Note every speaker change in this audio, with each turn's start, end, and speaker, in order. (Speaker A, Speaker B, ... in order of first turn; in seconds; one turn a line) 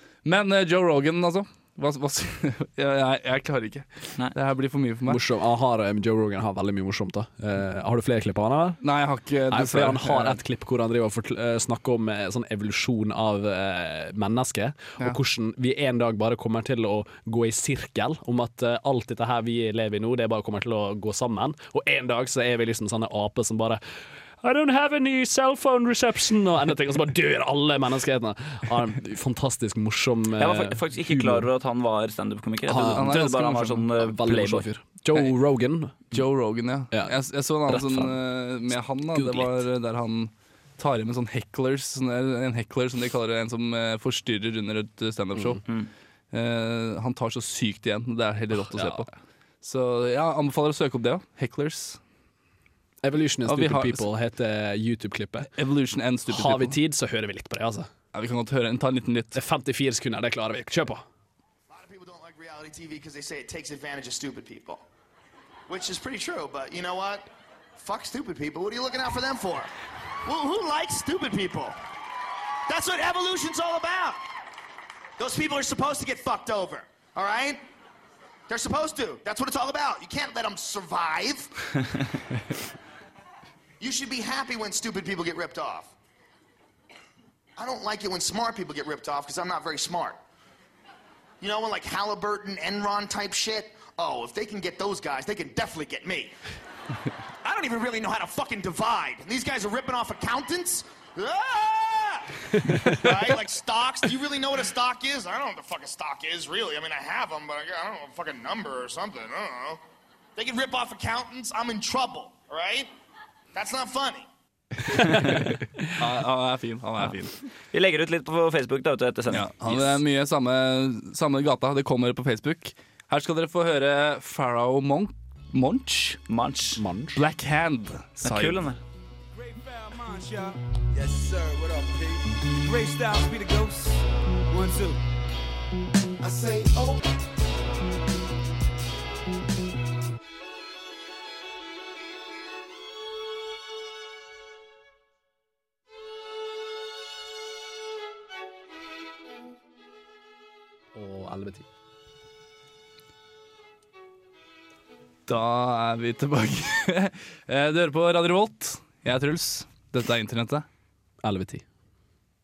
Speaker A: 0.2-5.2
Speaker B: 5.1-8.8
Speaker A: 8.8-10.4
Speaker B: 9.5-23.8
Speaker B: 24.4-31.5
Speaker C: 30.4-34.7
Speaker B: 32.7-36.1
Speaker A: 32.8-33.8
Speaker A: 36.1-45.6
Speaker B: 36.9-38.2
Speaker B: 39.1-39.6
Speaker A: 46.3-49.1
Speaker B: 48.5-49.0
Speaker A: 49.6-52.0
Speaker B: 53.0-55.5
Speaker A: 53.5-54.1
Speaker A: 55.5-56.8
Speaker B: 56.3-57.9
Speaker A: 58.1-59.4
Speaker B: 59.3-61.0
Speaker D: 61.7-64.8
Speaker D: 65.7-69.7
Speaker D: 70.2-71.8
Speaker D: 72.7-74.2
Speaker D: 75.2-77.6
Speaker D: 78.5-81.5
Speaker D: 83.8-85.9
Speaker D: 87.6-90.2
Speaker D: 91.4-96.3
Speaker D: 97.4-109.8
Speaker D: 110.3-112.9
Speaker D: 113.5-114.3
Speaker A: 116.0-117.3
Speaker C: 117.7-120.0
Speaker A: 119.3-126.2
Speaker C: 126.3-126.8
Speaker B: 126.8-127.2
Speaker A: 127.1-128.6
Speaker C: 128.2-128.8
Speaker E: 129.3-135.0
Speaker E: 136.2-136.8
Speaker B: 150.9-151.7
Speaker A: 155.3-160.6
Speaker B: 161.2-161.6